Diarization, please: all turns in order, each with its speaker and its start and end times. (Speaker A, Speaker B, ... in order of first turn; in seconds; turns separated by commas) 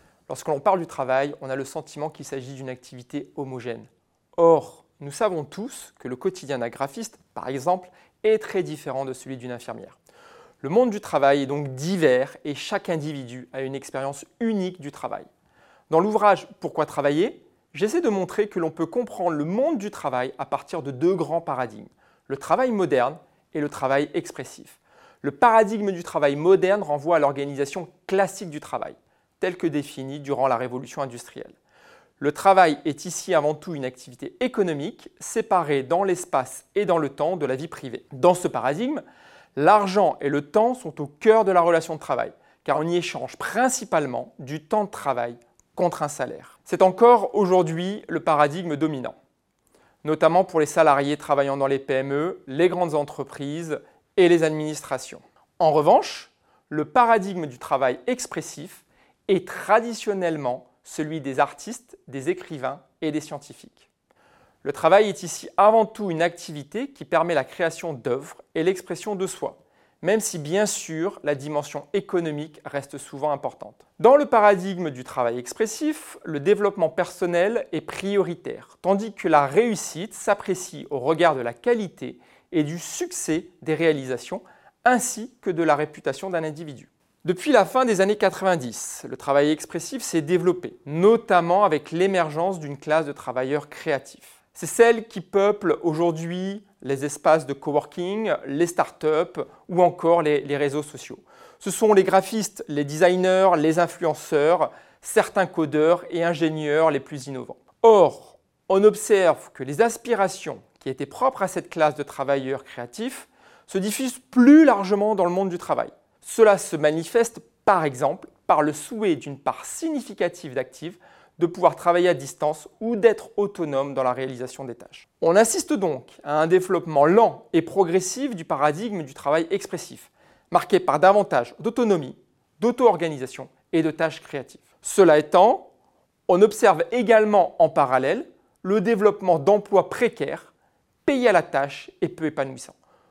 Speaker A: 0.3-10.0, Speaker A: 10.6-15.3, Speaker A: 15.9-31.6, Speaker A: 32.2-39.0, Speaker A: 39.5-49.1, Speaker A: 50.0-63.9, Speaker A: 64.6-135.7, Speaker A: 136.3-140.5, Speaker A: 141.1-142.8